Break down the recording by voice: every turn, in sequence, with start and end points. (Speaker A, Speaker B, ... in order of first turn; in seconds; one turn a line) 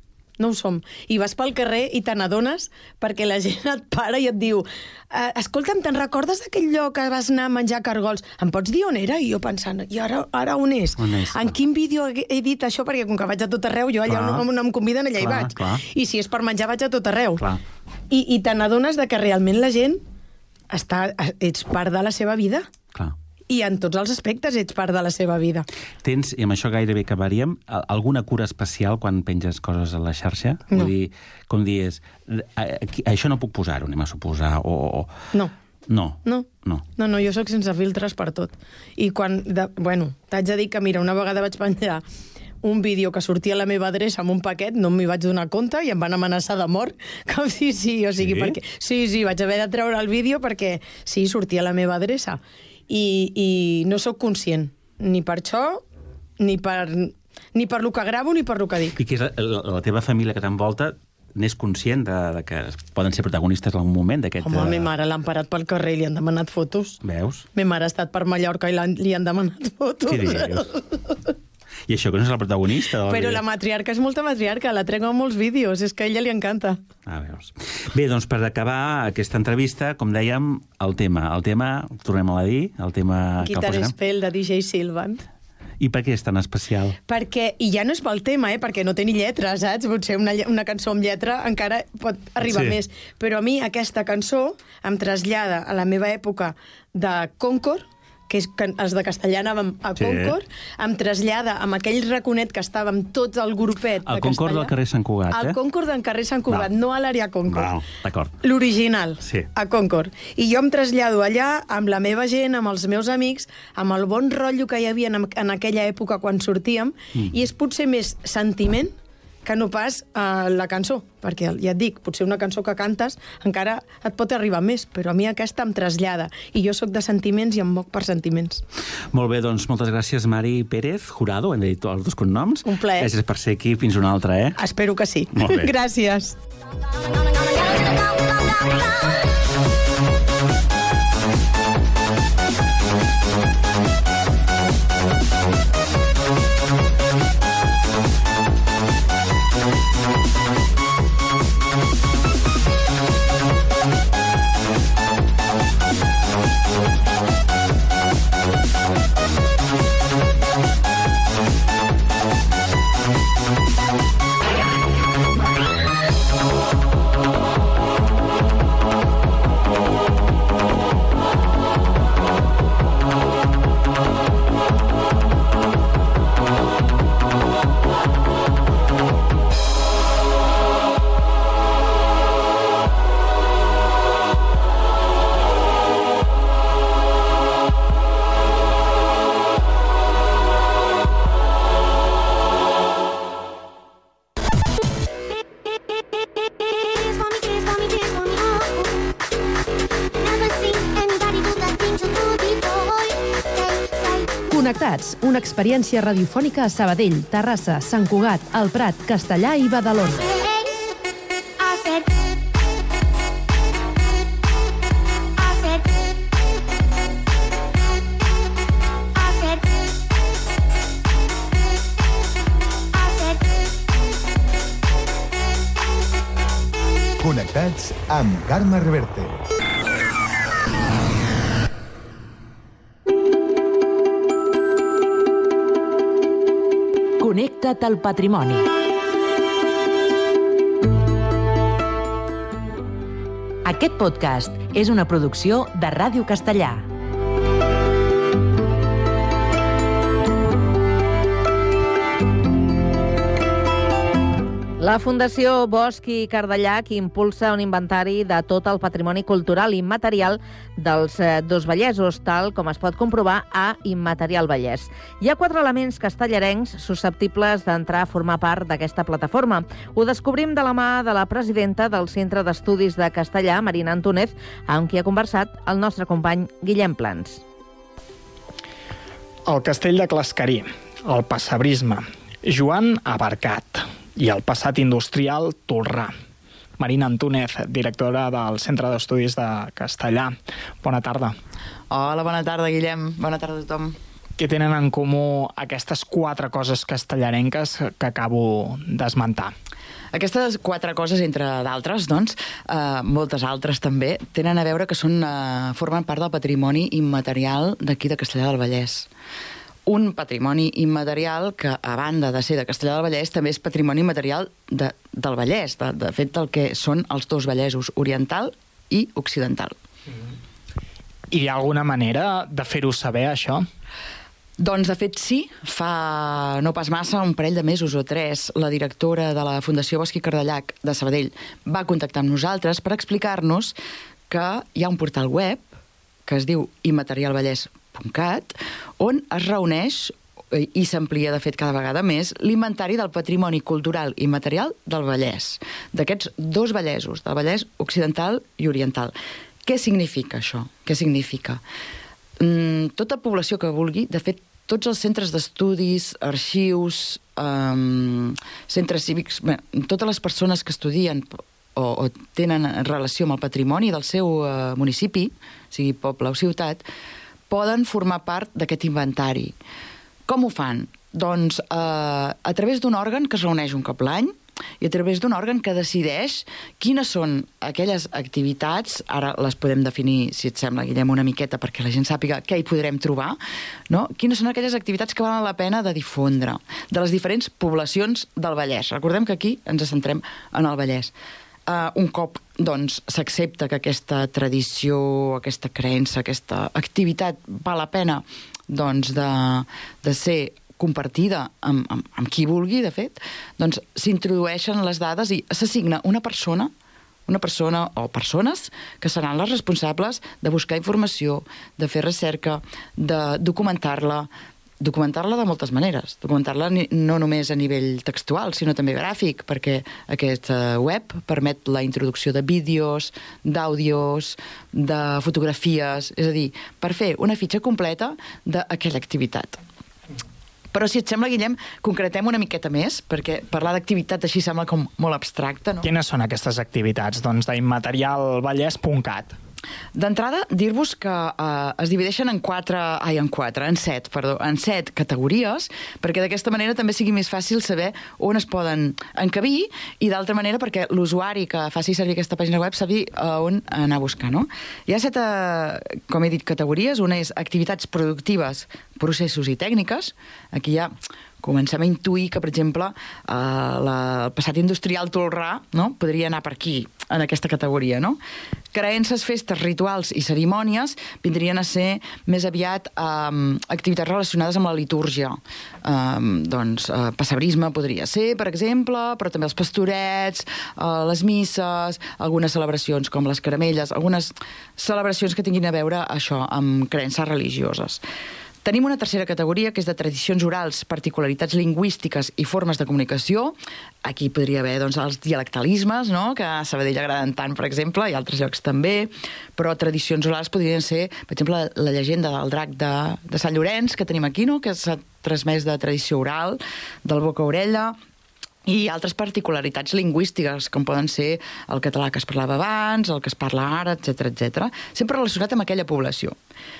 Speaker A: 0.4-17.4
Speaker B: 11.0-11.6
Speaker B: 14.1-14.4
Speaker B: 15.2-15.8
Speaker A: 18.1-20.0
Speaker A: 20.7-22.7
Speaker A: 23.5-25.7
Speaker B: 26.0-35.1
Speaker B: 35.9-36.8
Speaker A: 36.2-42.0
Speaker A: 42.6-55.8
Speaker B: 48.2-48.5
Speaker A: 56.4-59.0
Speaker B: 59.0-64.9
Speaker A: 64.4-67.0
Speaker B: 67.0-67.4
Speaker A: 67.5-71.3
Speaker B: 70.1-70.7
Speaker B: 71.9-73.4
Speaker A: 73.1-76.8
Speaker B: 77.0-83.9
Speaker A: 83.4-85.2
Speaker B: 85.8-87.0
Speaker A: 87.1-104.7
Speaker B: 92.4-92.8
Speaker B: 100.0-100.3
Speaker B: 104.0-105.5
Speaker A: 105.3-107.7
Speaker B: 107.5-108.3
Speaker A: 108.4-128.6
Speaker B: 129.1-134.6
Speaker A: 132.6-133.1
Speaker A: 134.6-136.3
Speaker B: 135.3-135.7
Speaker C: 137.5-138.8
Speaker C: 196.6-199.1
Speaker C: 200.2-204.3
Speaker D: 204.5-210.2
Speaker C: 210.3-210.7
Speaker C: 211.6-212.1
Speaker C: 215.3-215.9
Speaker C: 219.1-219.6
Speaker C: 222.9-223.5
Speaker E: 227.2-229.4
Speaker C: 237.2-238.5
Speaker C: 243.7-246.7
Speaker F: 254.8-277.4
Speaker G: 279.5-286.1
Speaker G: 286.8-291.3
Speaker H: 291.9-294.0
Speaker G: 294.4-299.5
Speaker H: 300.1-309.1
Speaker H: 309.9-319.7
Speaker G: 321.3-323.6
Speaker H: 324.6-333.7
Speaker H: 334.3-335.7
Speaker H: 336.2-349.1
Speaker H: 349.6-351.6
Speaker H: 352.4-366.9
Speaker H: 367.5-369.5
Speaker H: 370.3-391.1
Speaker H: 391.7-406.7
Speaker H: 407.3-414.3
Speaker H: 414.8-429.6
Speaker H: 430.7-435.9
Speaker G: 435.8-439.4
Speaker H: 439.9-468.2
Speaker H: 468.7-488.0
Speaker H: 488.6-508.0
Speaker H: 508.6-516.4